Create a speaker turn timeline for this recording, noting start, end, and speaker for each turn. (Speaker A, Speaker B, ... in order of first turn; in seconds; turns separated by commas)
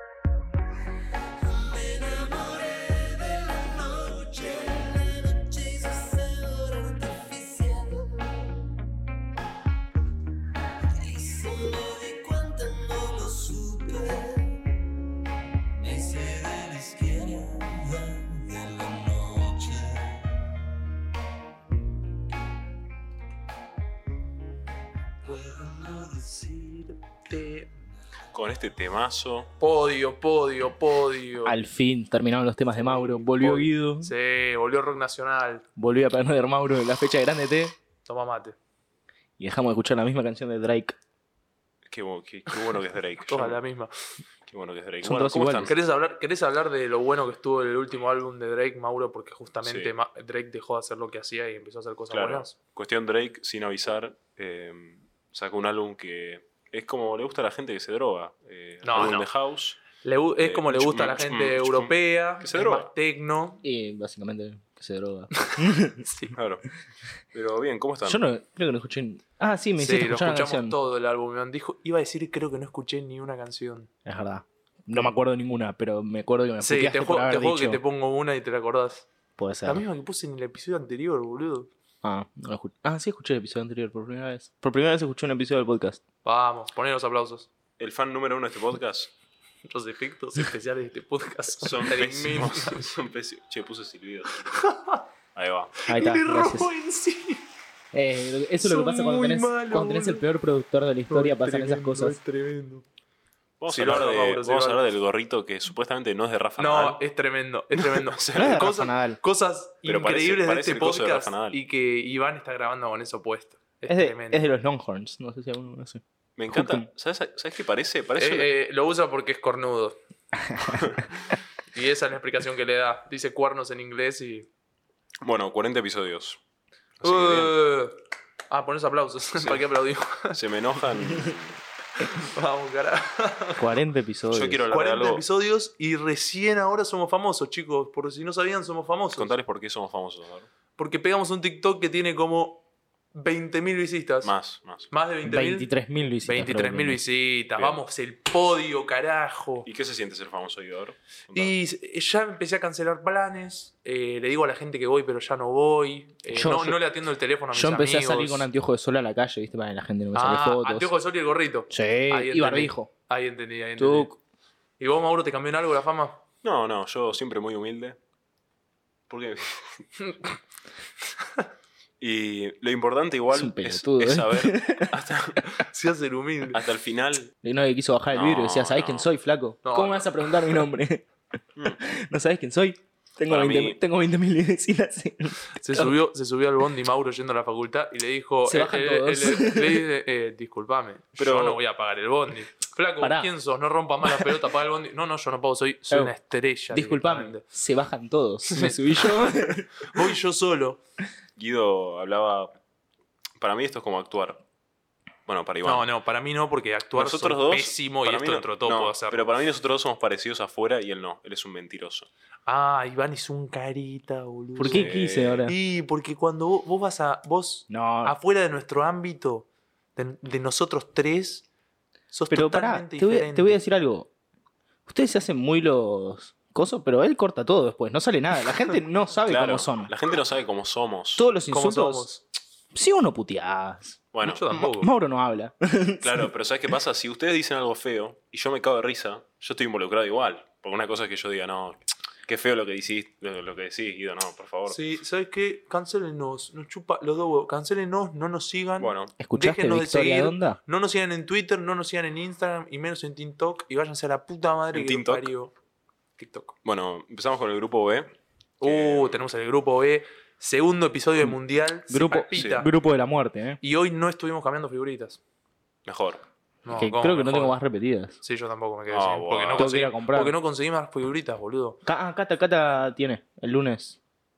Speaker A: 1.5-8.4, Speaker A: 11.0-14.6, Speaker A: 15.8-20.3, Speaker A: 25.2-26.8, Speaker B: 27.3-27.7, Speaker C: 28.3-29.5, Speaker B: 29.6-31.6, Speaker D: 31.4-34.1, Speaker B: 32.8-35.6, Speaker D: 35.8-37.8, Speaker B: 38.0-38.5, Speaker D: 39.4-41.0, Speaker C: 41.9-43.6, Speaker B: 43.3-43.9, Speaker C: 44.5-45.8, Speaker D: 45.0-45.7, Speaker B: 45.7-52.5, Speaker C: 49.6-49.9, Speaker C: 52.1-59.8, Speaker B: 58.8-59.3, Speaker B: 60.0-63.6, Speaker C: 60.4-62.9, Speaker D: 63.6-66.1, Speaker B: 65.4-66.3, Speaker C: 66.3-66.7, Speaker C: 67.3-68.2, Speaker D: 68.0-70.8, Speaker B: 69.8-73.9, Speaker D: 74.0-77.8, Speaker B: 76.6-79.1, Speaker D: 79.4-79.8, Speaker B: 79.7-81.7, Speaker D: 82.0-86.0, Speaker B: 86.2-87.5, Speaker C: 87.8-89.1, Speaker B: 89.7-92.8, Speaker C: 91.6-94.6, Speaker B: 94.5-95.0, Speaker C: 95.3-95.8, Speaker B: 95.8-97.4, Speaker D: 95.9-96.7, Speaker D: 97.9-102.2, Speaker B: 98.6-100.2, Speaker B: 101.1-102.8, Speaker C: 103.6-107.0, Speaker B: 103.7-104.8, Speaker B: 106.6-114.4, Speaker C: 107.8-108.7, Speaker D: 108.3-109.2, Speaker C: 109.8-111.6, Speaker D: 113.9-116.8, Speaker C: 116.4-118.5, Speaker B: 118.2-120.0, Speaker D: 120.5-120.8, Speaker C: 120.8-121.0, Speaker B: 121.7-124.5, Speaker C: 125.2-126.4, Speaker C: 127.0-127.5, Speaker B: 127.0-128.0, Speaker B: 128.5-130.4, Speaker C: 129.4-129.6, Speaker C: 130.3-131.6, Speaker B: 132.0-133.6, Speaker D: 133.6-134.6, Speaker C: 134.3-135.2, Speaker B: 134.7-139.3, Speaker C: 139.2-140.5, Speaker B: 140.8-142.6, Speaker B: 143.1-144.3, Speaker C: 144.2-144.9, Speaker B: 144.9-145.7, Speaker D: 145.2-147.0, Speaker B: 146.2-149.7, Speaker C: 147.6-147.8, Speaker C: 149.7-151.5, Speaker B: 151.3-158.5, Speaker D: 156.3-156.8, Speaker D: 157.5-160.9, Speaker B: 160.1-164.1, Speaker D: 161.7-162.9, Speaker D: 163.8-164.1, Speaker B: 164.8-166.2, Speaker C: 166.4-168.0, Speaker C: 169.1-169.9, Speaker C: 172.0-175.4, Speaker D: 173.3-174.9, Speaker B: 175.5-176.6, Speaker C: 176.5-177.3, Speaker D: 177.4-181.1, Speaker C: 178.1-179.1, Speaker B: 179.6-180.3, Speaker D: 181.8-185.9, Speaker C: 183.2-183.8, Speaker B: 185.5-197.4, Speaker D: 188.4-189.8, Speaker C: 191.2-191.6, Speaker D: 193.0-193.3, Speaker D: 194.1-194.3, Speaker D: 196.7-199.8, Speaker B: 198.5-199.2, Speaker B: 199.8-200.8, Speaker C: 201.3-202.5, Speaker C: 203.4-204.4, Speaker C: 205.3-205.9, Speaker B: 205.6-209.2, Speaker C: 206.9-212.1, Speaker B: 212.5-221.4, Speaker D: 214.6-215.5, Speaker C: 214.6-215.5, Speaker D: 217.7-218.2, Speaker B: 222.1-223.6, Speaker D: 222.3-224.1, Speaker D: 224.9-229.9, Speaker C: 229.3-231.3, Speaker D: 231.2-232.1, Speaker B: 231.5-232.2, Speaker D: 232.7-234.0, Speaker C: 234.1-234.4, Speaker B: 234.2-234.9, Speaker D: 234.5-236.3, Speaker C: 236.0-244.8, Speaker B: 244.7-255.5, Speaker C: 248.8-249.1, Speaker D: 249.2-250.6, Speaker C: 254.7-255.3, Speaker B: 256.2-256.6, Speaker C: 256.6-258.1, Speaker B: 258.6-262.7, Speaker C: 258.6-259.2, Speaker D: 261.9-263.6, Speaker C: 262.4-262.6, Speaker B: 263.6-265.2, Speaker C: 265.9-266.2, Speaker B: 266.6-267.6, Speaker D: 266.7-268.1, Speaker B: 268.2-271.8, Speaker C: 268.9-269.7, Speaker D: 269.6-270.4, Speaker D: 271.8-274.0